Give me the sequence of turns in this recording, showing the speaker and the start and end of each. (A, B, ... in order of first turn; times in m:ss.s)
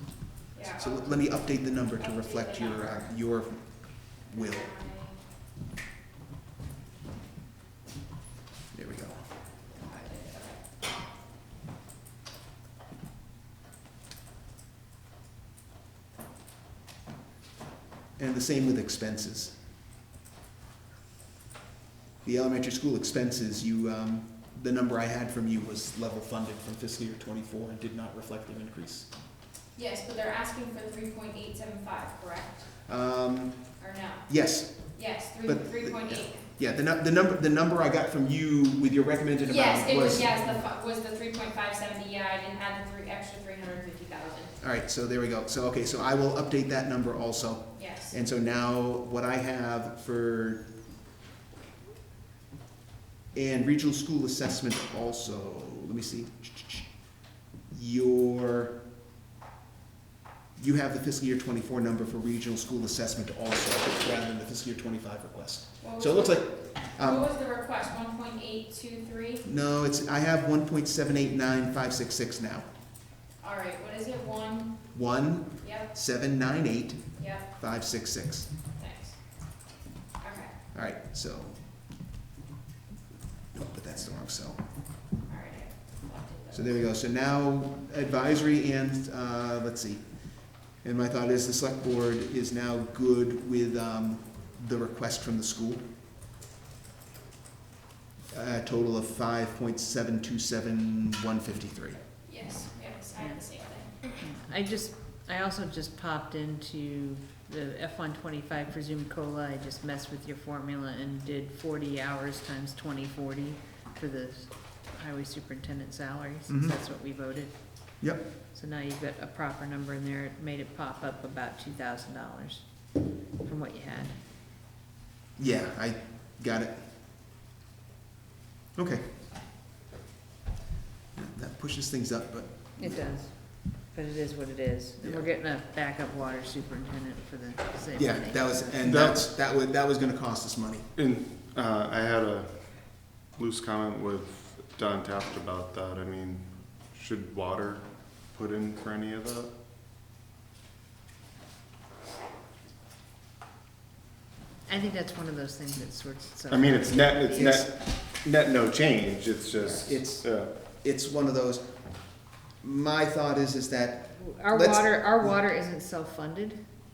0:00.5-0:01.2 A
0:00.7-0:04.8 B
0:02.0-0:03.1 A
0:04.3-0:05.2 A
0:08.7-0:09.3 B
0:09.7-0:10.6 A
0:18.2-0:19.6 B
0:22.2-0:29.1 B
0:29.8-0:32.7 A
0:32.8-0:33.8 B
0:33.8-0:36.4 A
0:34.3-0:40.6 B
0:39.4-0:44.6 A
0:44.6-0:50.7 B
0:47.8-0:48.1 A
0:53.3-0:56.9 B
0:57.7-0:58.8 B
1:00.6-1:07.3 B
1:05.8-1:09.4 A
1:09.4-1:12.7 B
1:13.4-1:14.9 A
1:14.9-1:18.5 B
1:15.6-1:15.9 A
1:17.2-1:17.4 A
1:18.8-1:19.2 A
1:20.2-1:20.5 A
1:20.7-1:21.6 B
1:23.5-1:24.6 B
1:25.2-1:26.8 A
1:26.5-1:30.0 B
1:30.8-1:35.8 B
1:38.3-1:42.0 B
1:42.3-1:44.1 A
1:43.2-1:43.5 C
1:44.1-2:04.2 C
1:56.5-1:56.8 B
2:05.4-2:06.9 B
2:08.8-2:09.1 B
2:11.2-2:13.0 B
2:12.8-2:18.8 C
2:15.0-2:15.3 B
2:18.0-2:20.9 B
2:18.8-2:19.2 D
2:21.0-2:29.5 D
2:34.7-2:37.6 C
2:36.5-2:40.5 D
2:37.3-2:37.7 B
2:39.6-2:41.8 B
2:42.5-2:45.4 B
2:44.2-2:46.6 C